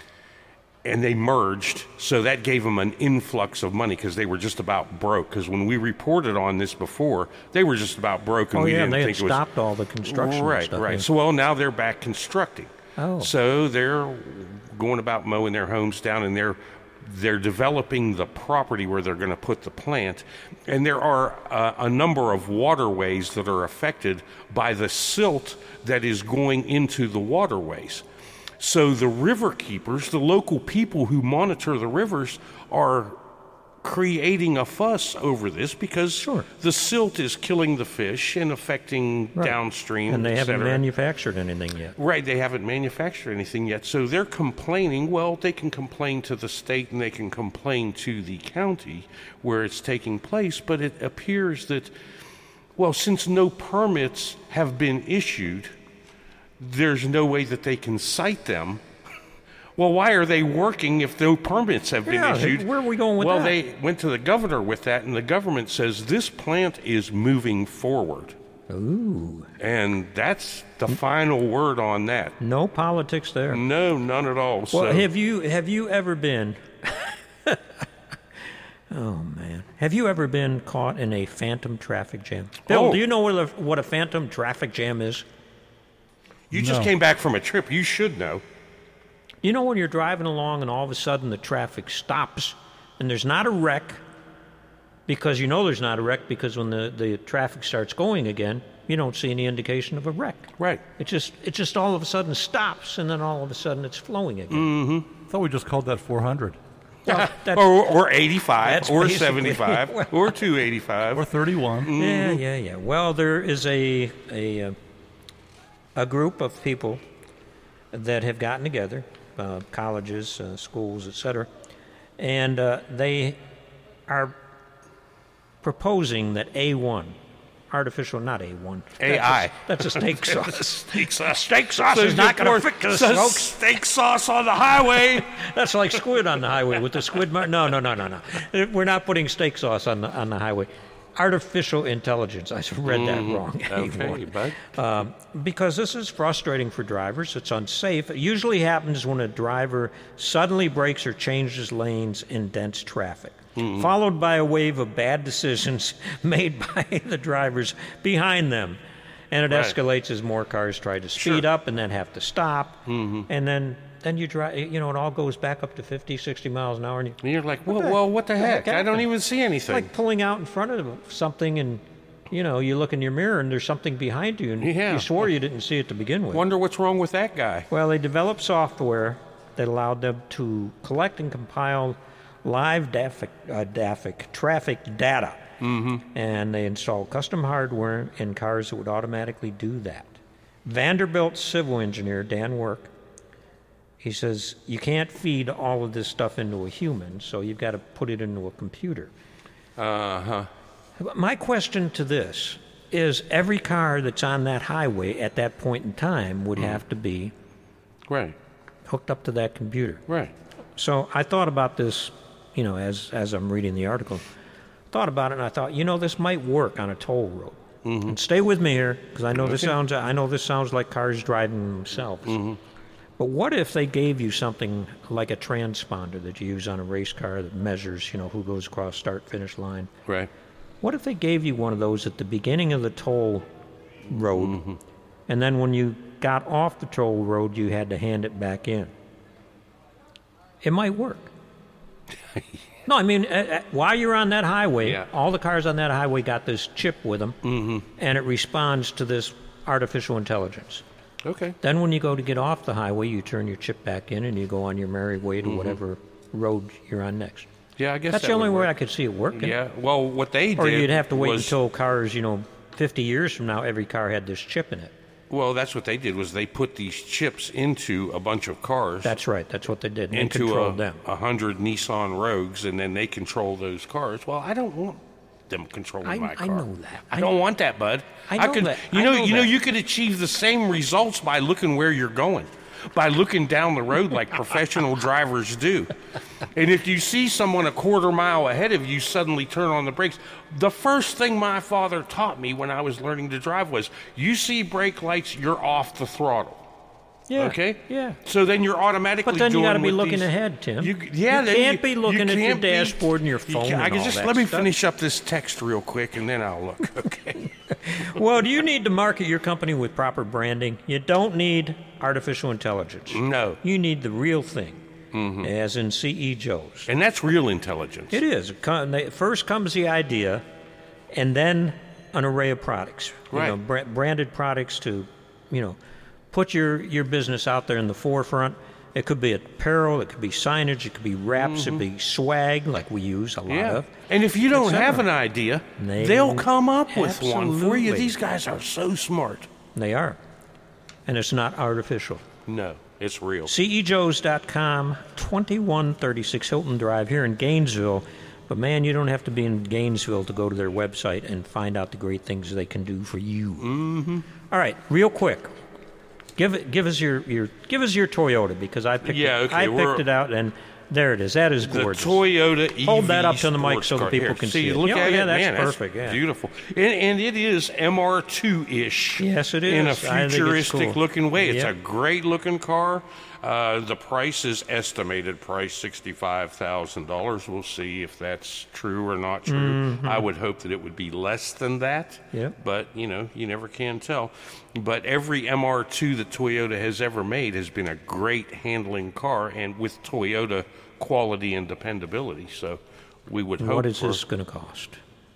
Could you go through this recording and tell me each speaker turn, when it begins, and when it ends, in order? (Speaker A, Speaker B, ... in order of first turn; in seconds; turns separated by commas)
Speaker A: 0.8-9.4, Speaker B: 8.5-11.1, Speaker A: 10.0-28.0, Speaker B: 13.0-13.3, Speaker A: 28.6-33.2, Speaker A: 33.8-40.8, Speaker B: 36.2-36.5, Speaker B: 39.4-42.0, Speaker A: 42.0-51.9, Speaker A: 52.8-55.8, Speaker A: 56.6-58.8, Speaker A: 59.8-68.4, Speaker B: 62.0-63.6, Speaker B: 68.7-69.5, Speaker A: 69.6-72.4, Speaker B: 72.4-73.6, Speaker A: 73.5-75.1, Speaker B: 74.7-77.6, Speaker B: 78.9-85.2, Speaker A: 82.7-83.0, Speaker A: 86.5-88.4, Speaker C: 86.5-86.9, Speaker B: 89.4-94.0, Speaker B: 95.1-104.7, Speaker A: 104.5-105.1, Speaker C: 105.3-106.6, Speaker B: 107.0-107.7, Speaker A: 107.1-112.4, Speaker B: 108.6-110.3, Speaker C: 111.1-111.9, Speaker B: 111.9-114.8, Speaker B: 116.0-117.0, Speaker B: 117.9-121.5, Speaker B: 122.2-123.4, Speaker B: 124.1-124.3, Speaker B: 125.6-127.2, Speaker B: 127.7-133.6, Speaker A: 129.0-135.4, Speaker B: 134.9-158.8, Speaker A: 142.9-144.7, Speaker A: 153.6-153.9, Speaker B: 159.3-169.1, Speaker A: 159.5-159.8, Speaker A: 161.2-161.5, Speaker A: 162.9-163.3, Speaker A: 167.2-169.9, Speaker B: 169.7-176.4, Speaker A: 174.6-175.3, Speaker A: 176.3-177.7, Speaker B: 177.7-185.4, Speaker A: 185.6-186.0, Speaker B: 186.1-192.9, Speaker B: 194.0-199.1, Speaker A: 199.8-200.5, Speaker B: 201.0-207.3, Speaker A: 206.6-206.8, Speaker A: 208.1-208.4, Speaker B: 208.9-210.0, Speaker A: 210.1-210.3, Speaker B: 210.8-214.2, Speaker B: 214.9-222.4, Speaker A: 217.8-218.2, Speaker A: 219.3-219.8, Speaker A: 222.2-222.6, Speaker B: 223.2-229.9, Speaker A: 230.1-230.3, Speaker B: 230.8-233.5, Speaker B: 234.1-234.6, Speaker A: 234.3-234.8, Speaker B: 235.3-238.9, Speaker B: 240.6-241.3, Speaker A: 242.3-242.6, Speaker B: 242.9-247.4, Speaker A: 247.4-247.9, Speaker B: 248.0-250.8, Speaker A: 251.2-251.6, Speaker B: 251.6-257.5, Speaker A: 255.4-255.8, Speaker A: 257.8-258.7, Speaker B: 258.1-259.6, Speaker A: 259.3-261.6, Speaker B: 260.6-264.9, Speaker A: 265.3-269.2, Speaker B: 269.0-271.0, Speaker A: 270.1-296.6, Speaker B: 276.0-277.3, Speaker B: 278.3-279.5, Speaker B: 297.3-298.2, Speaker A: 297.4-307.5, Speaker B: 299.2-304.7, Speaker B: 307.7-314.8, Speaker A: 313.1-313.6, Speaker A: 315.1-315.5, Speaker B: 315.4-316.9, Speaker A: 316.9-318.2, Speaker B: 318.1-320.4, Speaker B: 321.1-325.8, Speaker A: 323.3-323.6, Speaker B: 326.3-333.9, Speaker A: 331.4-331.9, Speaker A: 333.5-339.5, Speaker B: 334.5-335.1, Speaker B: 335.8-338.1, Speaker B: 339.8-340.2, Speaker B: 341.1-342.2, Speaker A: 342.5-343.5, Speaker B: 343.5-353.7, Speaker A: 353.6-354.3, Speaker B: 354.5-355.5, Speaker B: 356.4-362.2, Speaker A: 359.0-360.1, Speaker A: 361.6-394.2, Speaker B: 362.8-366.2, Speaker B: 369.2-371.7, Speaker B: 379.5-380.3, Speaker B: 393.6-395.0